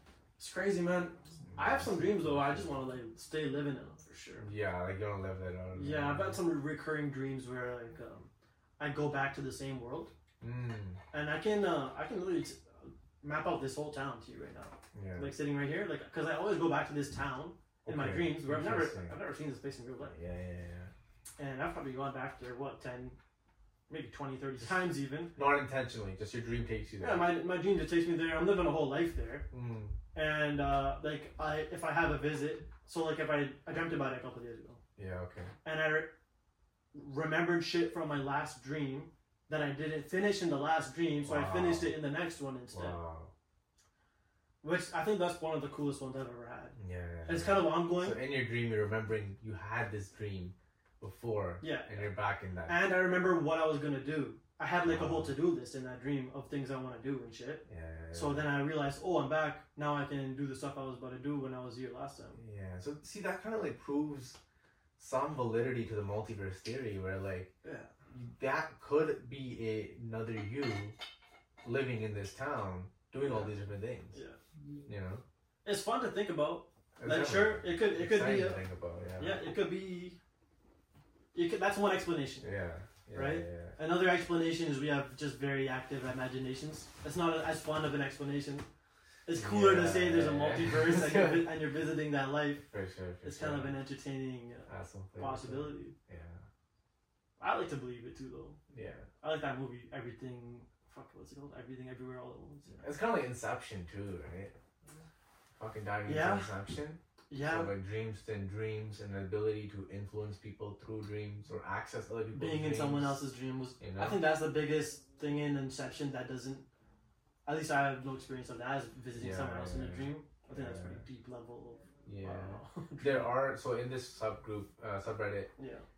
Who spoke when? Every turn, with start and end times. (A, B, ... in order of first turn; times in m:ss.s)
0:00.4-0:04.5 A
0:01.5-0:02.8 B
0:04.4-0:06.4 B
0:05.8-0:10.1 A
0:10.4-0:11.0 B
0:11.1-0:20.2 A
0:14.9-0:15.4 B
0:17.8-0:19.2 B
0:20.0-0:20.9 B
0:21.4-0:23.2 A
0:23.9-0:25.4 A
0:25.4-0:27.3 B
0:27.0-0:29.5 A
0:29.5-0:30.0 B
0:30.1-0:34.8 A
0:35.0-0:35.5 B
0:35.6-0:36.1 A
0:36.9-0:43.0 A
0:41.2-0:42.0 B
0:42.7-0:43.3 B
0:44.6-0:48.2 A
0:46.8-0:52.8 B
0:51.6-0:52.1 A
0:52.6-1:02.4 A
0:54.8-0:55.4 B
0:57.7-0:58.5 B
1:02.4-1:04.4 B
1:05.0-1:07.5 B
1:07.6-1:07.9 A
1:08.1-1:11.0 B
1:11.6-1:14.2 B
1:13.2-1:13.6 A
1:14.1-1:14.4 A
1:14.9-1:15.2 B
1:15.6-1:18.6 A
1:17.0-1:19.5 B
1:19.2-1:20.2 A
1:21.3-1:22.5 A
1:22.4-1:23.8 B
1:23.1-1:28.7 A
1:29.3-1:32.7 A
1:29.3-1:31.7 B
1:32.6-1:33.8 B
1:33.2-1:36.0 A
1:34.7-1:36.5 B
1:37.4-1:38.6 A
1:38.7-1:39.1 B
1:39.2-1:42.8 A
1:42.8-1:44.6 B
1:45.5-1:53.3 B
1:46.0-1:46.5 A
1:47.3-1:47.7 A
1:52.3-1:56.7 A
1:53.8-1:54.3 B
1:57.4-2:03.4 A
1:59.2-2:01.0 B
2:02.0-2:05.5 B
2:05.6-2:05.9 A